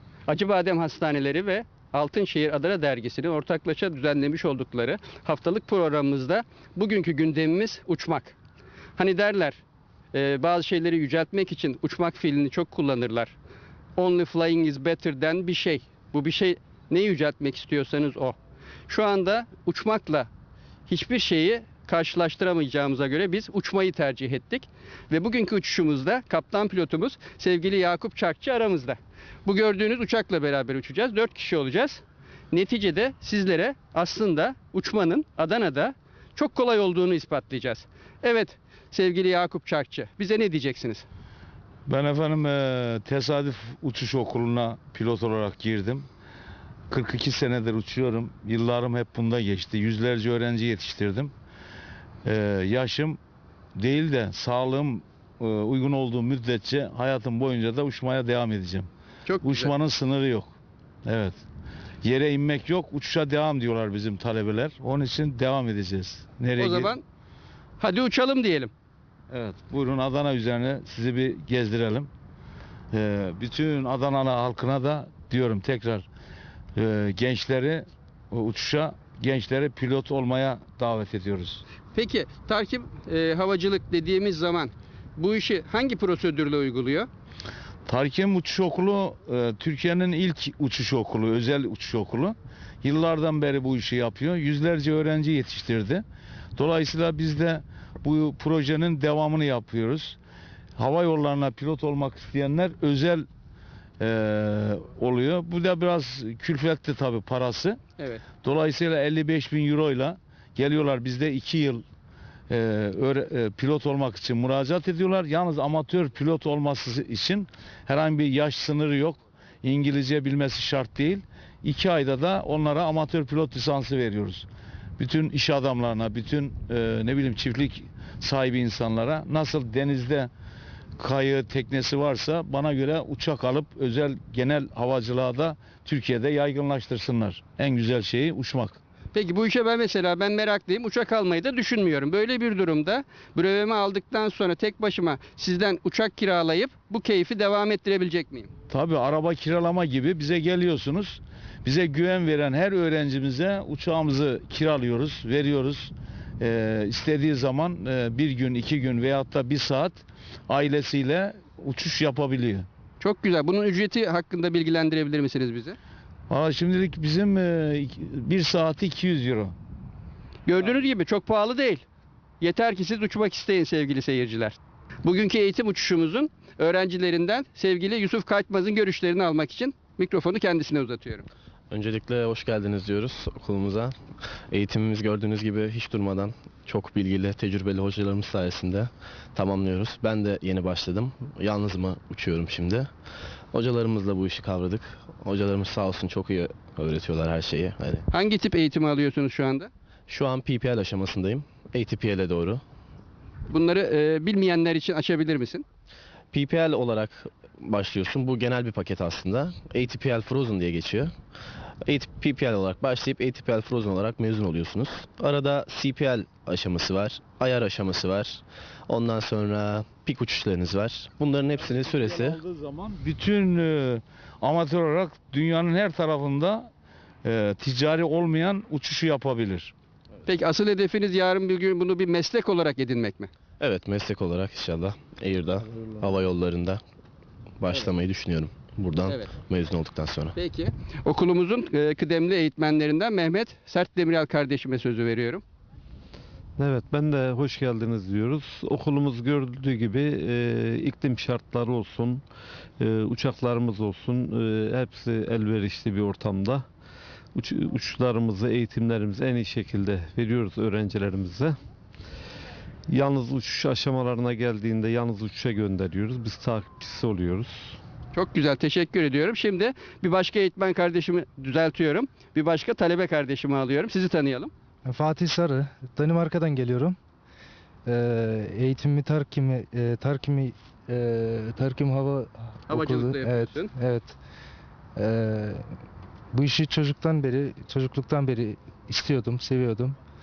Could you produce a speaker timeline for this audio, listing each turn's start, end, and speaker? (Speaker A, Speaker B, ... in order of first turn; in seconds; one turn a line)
Speaker A: 0.3-8.4
Speaker A: 9.0-9.6
Speaker A: 10.1-13.3
Speaker A: 14.0-18.4
Speaker A: 18.9-20.3
Speaker A: 20.9-41.1
Speaker B: 41.9-46.1
Speaker B: 46.9-51.3
Speaker B: 52.2-53.2
Speaker B: 53.8-58.9
Speaker A: 59.3-59.7
Speaker B: 59.4-61.4
Speaker B: 62.0-66.9
Speaker A: 66.6-67.0
Speaker A: 67.8-68.7
Speaker B: 69.3-72.1
Speaker B: 72.9-76.1
Speaker B: 76.8-81.6
Speaker A: 81.9-87.1
Speaker B: 87.9-96.0
Speaker B: 96.6-100.2
Speaker B: 100.8-103.3
Speaker B: 104.0-107.8
Speaker A: 108.0-108.2
Speaker B: 108.4-111.8
Speaker B: 112.5-124.5
Speaker B: 125.0-130.3
Speaker B: 131.0-138.8
Speaker A: 139.1-148.5
Speaker B: 148.7-162.7
Speaker A: 163.0-165.8
Speaker B: 166.3-169.5
Speaker A: 170.5-171.8
Speaker A: 172.4-181.3
Speaker C: 181.7-183.9
Speaker C: 184.5-192.9
Speaker C: 193.5-198.1
Speaker A: 198.1-199.7
Speaker C: 200.1-202.6
Speaker A: 203.5-205.7
Speaker C: 206.3-211.1
Speaker C: 211.8-222.4
Speaker B: 221.6-226.7
Speaker B: 227.2-229.7
Speaker A: 230.3-233.3
Speaker C: 233.6-236.8
Speaker C: 237.6-240.4
Speaker A: 240.4-245.4
Speaker D: 246.6-252.2
Speaker D: 252.8-256.7
Speaker D: 257.4-261.6
Speaker D: 262.9-267.8
Speaker A: 268.1-274.5
Speaker E: 274.9-277.0
Speaker E: 277.9-284.2
Speaker A: 282.7-283.7
Speaker E: 285.0-285.7
Speaker E: 286.3-290.0